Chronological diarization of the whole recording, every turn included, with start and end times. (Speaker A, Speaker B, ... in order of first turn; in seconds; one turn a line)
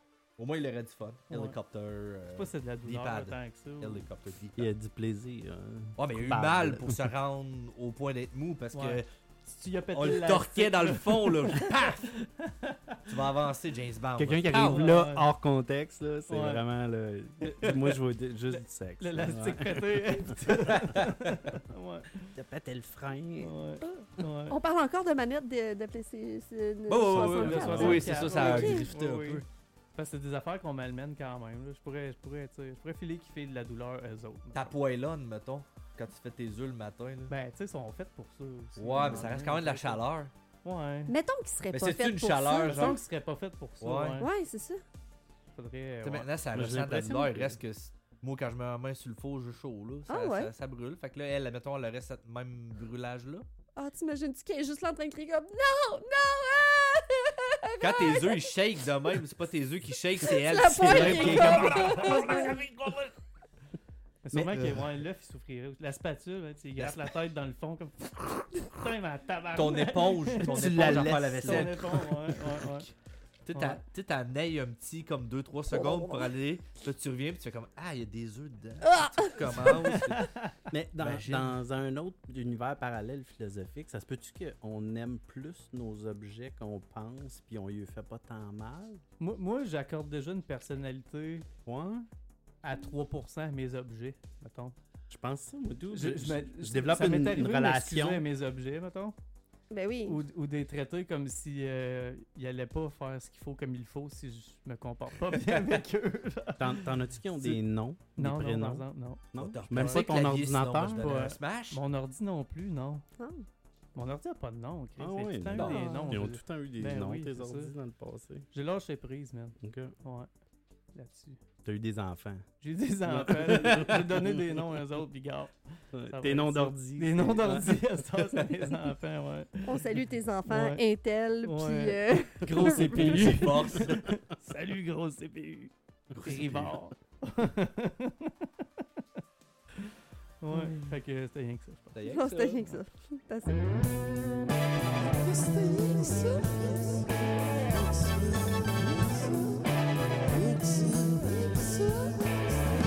Speaker A: 0.4-4.7
Speaker B: 1.3-1.6
Speaker B: 2.3-4.1
Speaker C: 4.6-7.0
Speaker A: 6.0-9.1
Speaker B: 8.7-13.1
Speaker A: 9.9-12.0
Speaker A: 13.1-15.0
Speaker C: 14.2-20.4
Speaker B: 14.5-15.3
Speaker B: 16.3-16.6
Speaker B: 17.4-22.3
Speaker A: 20.5-21.5
Speaker C: 22.3-23.5
Speaker B: 23.4-24.6
Speaker D: 24.5-28.9
Speaker A: 26.9-29.4
Speaker B: 27.1-34.8
Speaker A: 34.5-37.3
Speaker B: 37.3-40.0
Speaker A: 38.8-40.3
Speaker C: 39.0-39.3
Speaker B: 40.6-41.1
Speaker D: 41.1-43.0
Speaker A: 41.7-43.0
Speaker B: 42.7-44.3
Speaker A: 43.8-44.2
Speaker D: 44.2-44.8
Speaker B: 45.5-46.3
Speaker A: 46.0-53.5
Speaker C: 46.5-47.6
Speaker D: 50.1-50.5
Speaker D: 53.8-58.4
Speaker A: 57.8-63.1
Speaker D: 60.3-62.6
Speaker C: 60.8-62.2
Speaker B: 64.2-72.9
Speaker C: 64.3-64.9
Speaker A: 66.8-67.1
Speaker A: 69.5-72.1
Speaker C: 70.4-72.7
Speaker A: 73.5-80.3
Speaker B: 73.5-73.8
Speaker D: 75.7-76.3
Speaker D: 78.8-79.7
Speaker B: 79.7-80.6
Speaker C: 80.7-89.0
Speaker A: 81.0-81.6
Speaker B: 89.2-91.5
Speaker C: 91.7-92.1
Speaker B: 92.6-94.8
Speaker C: 95.1-98.2
Speaker B: 95.9-99.2
Speaker D: 99.7-100.2
Speaker B: 100.0-107.6
Speaker A: 105.3-105.8
Speaker C: 106.6-111.1
Speaker B: 108.2-110.2
Speaker A: 109.4-111.8
Speaker B: 111.0-113.0
Speaker D: 113.2-113.5
Speaker B: 113.9-117.7
Speaker C: 115.0-118.5
Speaker A: 115.5-115.9
Speaker D: 115.7-116.2
Speaker B: 118.5-120.3
Speaker C: 119.6-119.9
Speaker B: 120.9-121.4
Speaker C: 121.6-122.5
Speaker B: 122.6-125.5
Speaker C: 123.0-124.6
Speaker C: 125.9-127.8
Speaker B: 126.1-130.8
Speaker D: 129.6-133.5
Speaker B: 131.4-138.8
Speaker A: 132.9-134.0
Speaker C: 136.2-136.8
Speaker B: 139.8-141.9
Speaker A: 141.9-142.7
Speaker D: 142.1-143.7
Speaker B: 145.0-146.8
Speaker A: 146.5-147.0
Speaker A: 147.9-148.7
Speaker A: 150.5-151.4
Speaker B: 151.5-152.0